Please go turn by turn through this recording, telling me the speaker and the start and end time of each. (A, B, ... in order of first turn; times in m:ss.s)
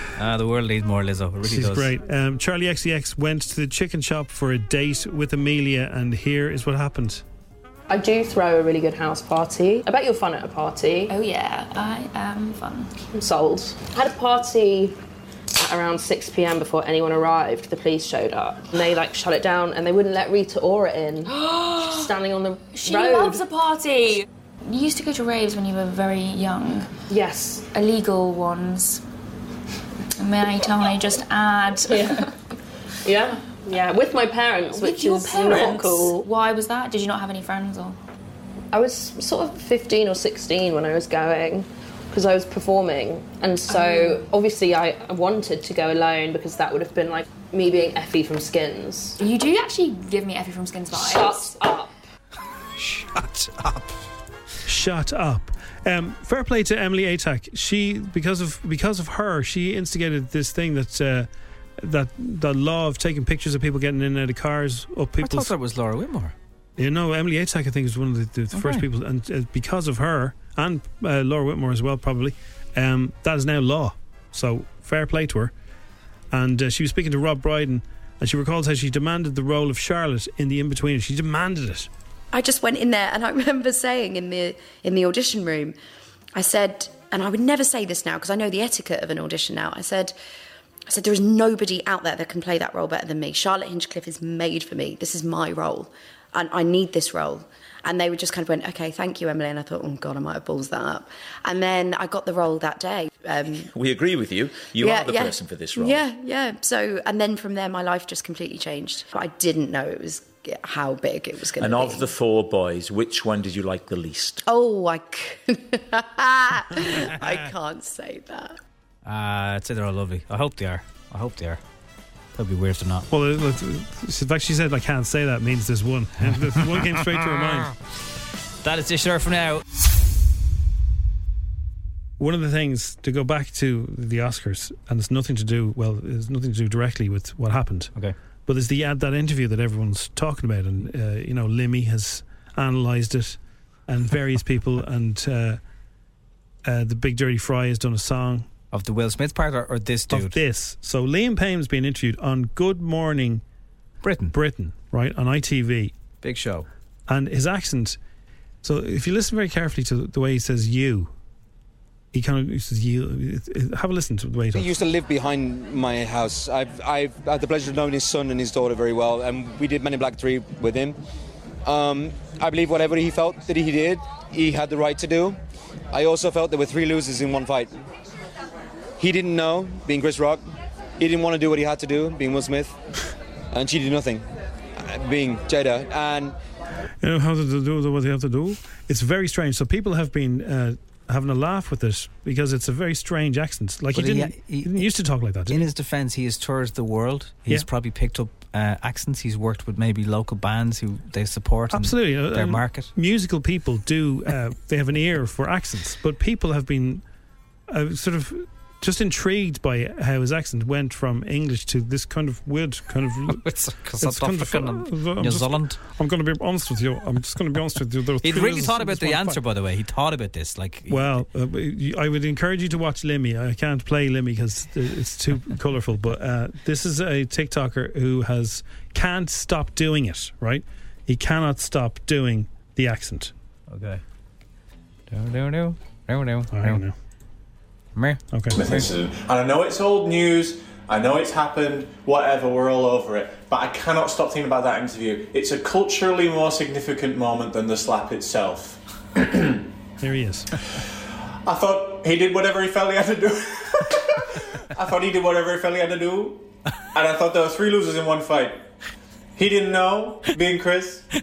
0:00.2-0:01.9 A
0:01.4-0:07.2 B
0:07.9-0:11.2 C
0:11.1-0:13.0 D
0:13.1-0:15.0 C
0:15.6-0:23.5 C
0:22.8-0:26.9 D
0:27.1-0:27.7 C
0:27.7-0:29.0 D
0:30.2-0:32.0 D
0:31.9-0:32.3 C
0:33.0-0:36.3 C
0:34.8-0:38.0 D
0:38.7-0:49.2 C
0:49.2-0:51.3 D
0:50.9-0:51.9 C
0:52.8-0:54.0 A
0:54.6-1:05.5 B
1:05.2-1:06.3 A
1:06.8-1:15.5 B
1:08.5-1:08.8 A
1:16.3-1:21.9 B
1:22.3-1:25.7 E
1:26.3-1:30.1 E
1:30.9-1:43.7 E
1:43.7-1:46.0 F
1:44.8-1:52.1 E
1:51.6-1:54.4 F
1:54.4-1:58.5 E
1:59.0-2:01.6 A
2:02.3-2:03.1 A
2:03.1-2:07.7 B
2:08.6-2:09.6 A
2:12.2-2:17.9 B
2:18.4-2:25.6 B
2:26.6-2:28.5 B
2:28.7-2:30.4 A
2:30.1-2:33.4 B
2:34.0-2:34.3 A
2:34.3-2:35.9 B
2:36.2-2:36.7 A
2:37.1-2:38.0 B
2:38.6-2:41.1 B
2:42.1-2:44.7 B
2:44.5-2:51.0 G
2:51.6-2:55.4 G
2:55.9-2:57.7 G
2:59.0-3:00.4 G
3:01.0-3:02.8 G
3:03.5-3:04.2 G
3:04.8-3:06.3 G
3:07.0-3:15.7 B
3:13.9-3:14.9 A
3:15.5-3:22.9 A
3:21.7-3:27.0 B
3:27.7-3:33.4 B
3:33.3-3:35.8 A
3:34.0-3:39.4 B
3:38.2-3:41.2 A
3:40.9-3:53.3 B
3:53.7-3:54.0 A
3:55.1-3:56.8 A
3:56.5-3:56.9 B
3:58.0-3:58.9 A
3:58.3-3:58.6 B
3:58.5-4:08.8 H
4:10.0-4:10.5 B
4:11.4-4:14.0 H
4:14.7-4:18.6 H
4:19.4-4:21.0 H